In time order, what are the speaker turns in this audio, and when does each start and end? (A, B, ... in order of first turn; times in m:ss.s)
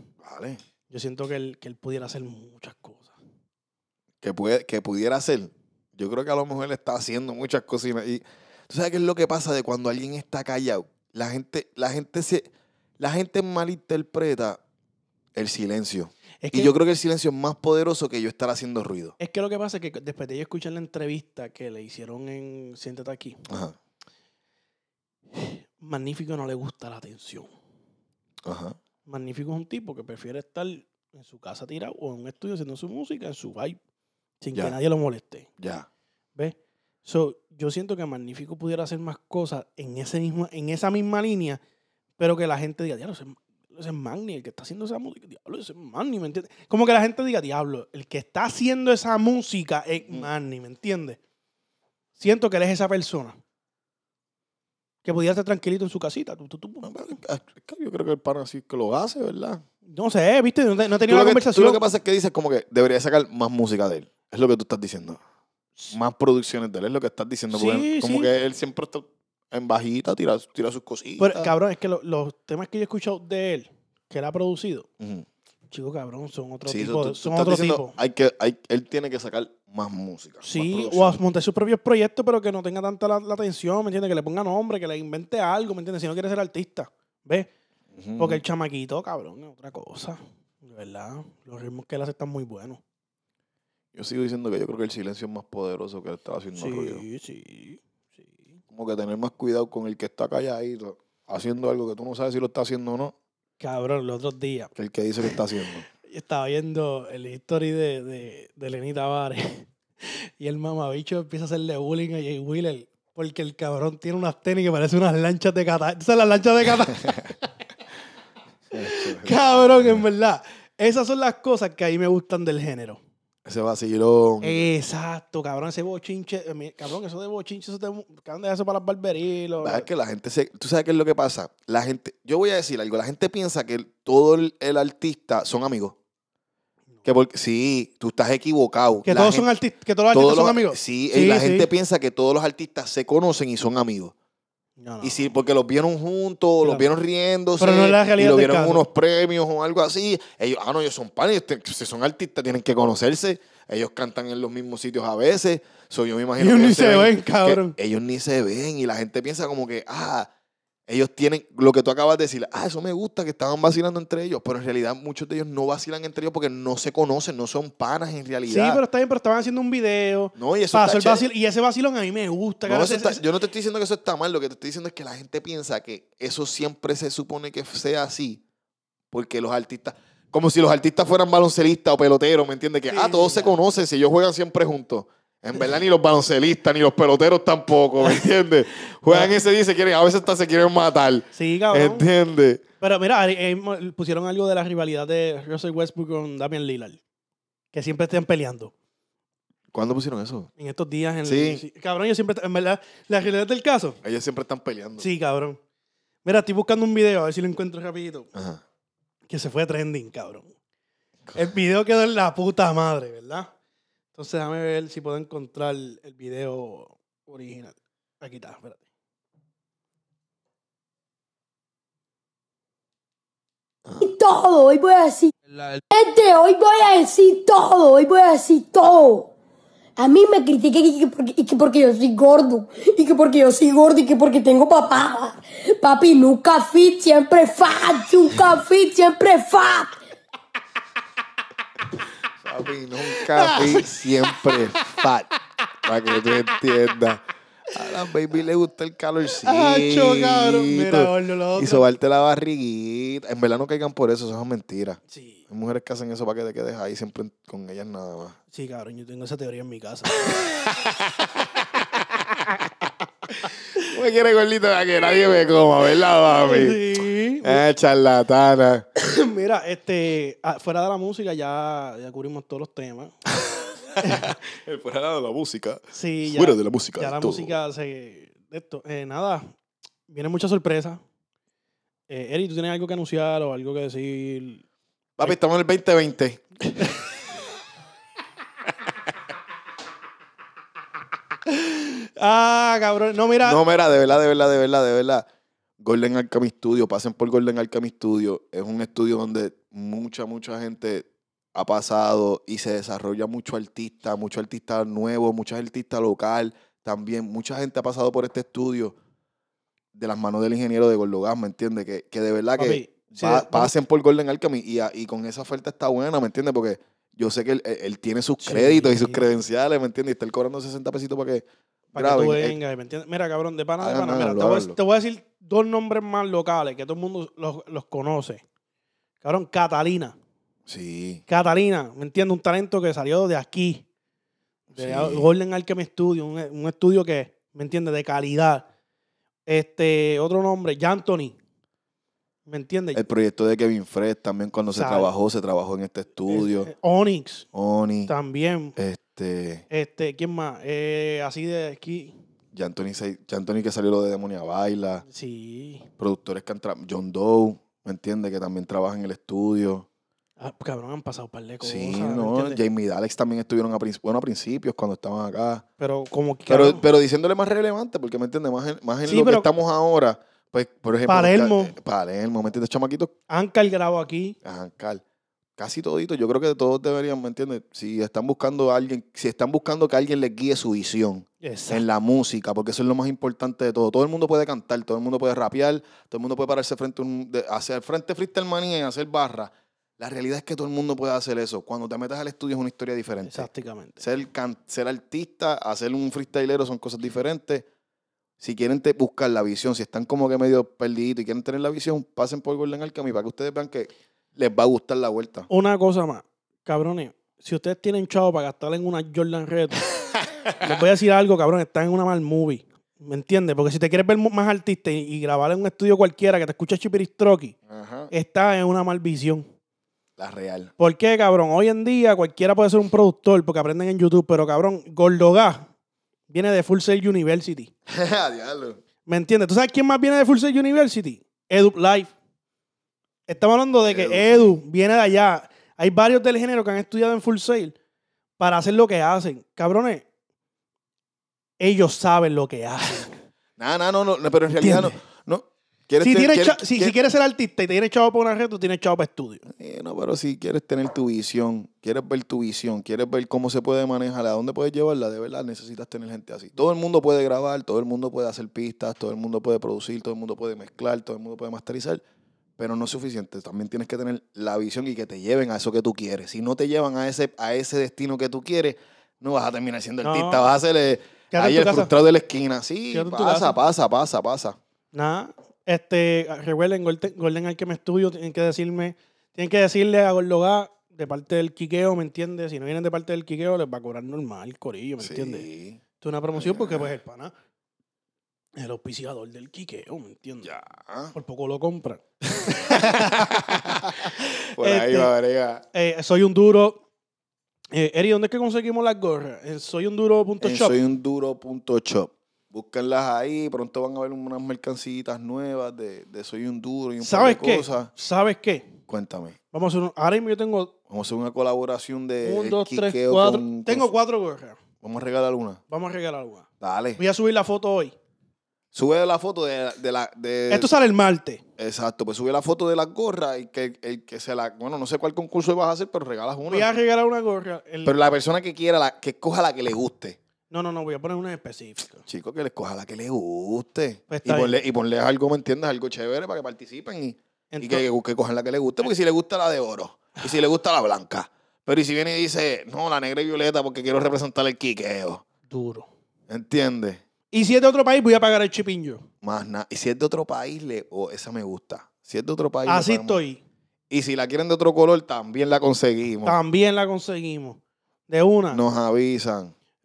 0:00.2-0:00.6 A
0:00.9-0:03.2 B
0:04.2-0:14.6 A
0:15.4-0:19.2 A
0:16.4-0:16.7 B
0:19.2-0:23.4 B
0:23.5-0:23.8 A
0:25.3-0:27.5 B
0:28.4-0:28.8 A
0:29.1-0:33.8 B
0:34.4-0:35.5 B
0:35.6-0:35.9 A
0:36.4-0:41.6 B
0:42.2-0:51.2 B
0:52.2-0:53.4 B
0:55.0-0:57.2 B
0:56.8-0:59.6 A
0:59.9-1:01.8 B
1:01.0-1:05.2 A
1:05.9-1:11.5 A
1:07.5-1:08.3 B
1:11.2-1:14.9 B
1:15.0-1:15.3 A
1:15.7-1:18.0 B
1:16.7-1:21.2 A
1:20.4-1:27.5 B
1:27.9-1:28.4 A
1:28.2-1:32.8 B
1:33.9-1:37.0 A
1:36.6-1:38.5 B
1:38.7-1:43.2 A
1:43.6-1:44.7 B
1:44.8-1:45.9 A
1:46.0-1:57.6 B
1:58.7-2:00.0 A
1:58.8-2:03.0 B
2:03.4-2:04.6 A
2:04.4-2:09.9 B
2:09.6-2:16.0 A
2:17.0-2:19.5 A
2:19.0-2:21.7 B
2:20.1-2:24.1 A
2:24.8-2:25.3 B
2:25.0-2:40.3 A
2:26.6-2:26.9 B
2:27.6-2:28.8 B
2:36.4-2:37.8 B
2:40.9-2:48.8 A
2:48.5-2:53.2 B
2:50.4-2:51.3 A
2:52.7-2:58.4 A
2:59.1-3:12.6 A
3:02.9-3:03.5 B
3:09.1-3:09.4 B
3:11.3-3:12.1 B
3:12.8-3:17.0 B
3:17.7-3:18.7 B
3:19.7-3:20.5 A
3:20.6-3:24.0 B
3:21.2-3:21.6 A
3:24.0-3:25.1 A
3:25.0-3:25.6 B
3:26.2-3:28.3 B
3:28.4-3:28.6 A
3:29.3-3:30.5 B
3:31.3-3:33.5 B
3:34.1-3:38.8 B
3:43.8-3:44.1 A
3:44.0-3:45.3 C
3:45.9-3:49.3 C
3:50.0-4:00.0 C
4:02.4-4:05.3 A
4:03.1-4:04.6 B
4:05.8-4:18.4 A
4:09.4-4:11.9 B
4:15.1-4:15.4 B
4:18.5-4:20.4 B
4:20.3-4:26.8 A
4:26.4-4:27.6 B
4:27.4-4:28.9 A
4:29.0-4:33.1 B
4:33.5-4:37.6 A
4:34.0-4:34.3 B
4:35.9-4:39.5 B
4:40.1-4:41.0 B
4:42.1-4:44.6 B
4:45.2-4:47.0 A
4:51.5-4:53.6 B
4:53.4-4:55.3 A
4:55.8-5:09.0 A
5:09.9-5:22.6 A
5:12.6-5:13.7 B
5:18.4-5:19.3 B
5:21.9-5:28.4 B
5:23.8-5:24.8 A
5:29.2-5:30.2 B
5:30.7-5:31.2 A
5:31.3-5:33.8 B
5:34.7-5:38.7 B
5:34.8-5:35.3 A
5:39.5-5:41.4 B
5:42.5-5:43.0 B
5:42.9-5:46.7 A
5:44.7-5:45.1 B
5:46.3-5:47.5 B
5:47.5-5:48.1 A
5:48.1-5:48.8 B
5:48.8-5:49.6 A
5:49.7-5:52.2 B
5:52.5-5:55.0 A
5:55.1-5:55.9 B
5:56.0-5:59.9 A
6:00.4-6:02.6 B
6:01.6-6:05.6 A
6:05.8-6:06.8 B
6:06.5-6:13.1 A
6:09.0-6:09.5 B
6:11.1-6:11.7 B
6:13.3-6:14.4 B
6:14.4-6:15.0 A
6:15.6-6:33.5 A
6:21.4-6:21.8 B
6:33.3-6:34.0 B
6:34.0-6:37.7 A
6:38.4-6:45.5 A
6:45.5-6:49.9 B
6:50.6-6:57.6 B
6:57.7-6:58.1 A
6:58.1-6:59.5 B
7:00.2-7:00.7 A
7:00.8-7:05.7 B
7:06.3-7:07.7 B
7:07.9-7:08.8 A
7:09.1-7:12.1 B
7:13.3-7:17.8 B
7:13.9-7:14.5 A
7:18.4-7:20.0 B
7:21.6-7:23.2 B
7:23.6-7:27.0 A
7:24.6-7:25.0 B
7:26.0-7:29.4 B
7:29.5-7:42.0 A
7:42.6-7:54.6 A
7:50.0-7:50.5 B
7:51.3-7:51.9 B
7:52.9-7:53.6 B
7:54.9-8:05.5 B
8:05.0-8:05.8 A
8:06.0-8:07.3 B
8:06.4-8:06.9 A
8:08.6-8:10.5 B
8:10.4-8:11.1 A
8:11.1-8:15.1 B
8:12.4-8:15.6 A
8:15.7-8:16.8 B
8:17.7-8:20.8 B
8:20.4-8:27.9 A
8:27.0-8:28.8 B
8:28.9-8:29.4 A
8:29.5-8:30.7 B
8:30.9-8:33.9 A
8:32.2-8:34.6 B
8:34.8-8:35.6 A
8:35.7-8:36.5 B
8:36.6-8:37.0 A
8:37.0-8:38.0 B
8:38.7-8:40.7 A
8:40.5-8:41.4 B
8:41.6-8:46.7 A
8:46.5-8:48.0 B
8:47.8-8:50.2 A
8:50.5-8:52.0 B
8:52.1-9:05.2 A
8:54.1-8:54.6 B
8:57.5-8:57.9 B
9:05.5-9:05.9 B
9:06.3-9:07.0 A
9:07.3-9:09.0 B
9:09.2-9:13.2 A
9:12.7-9:13.4 B
9:13.9-9:16.4 A
9:16.2-9:18.6 B
9:18.5-9:19.5 A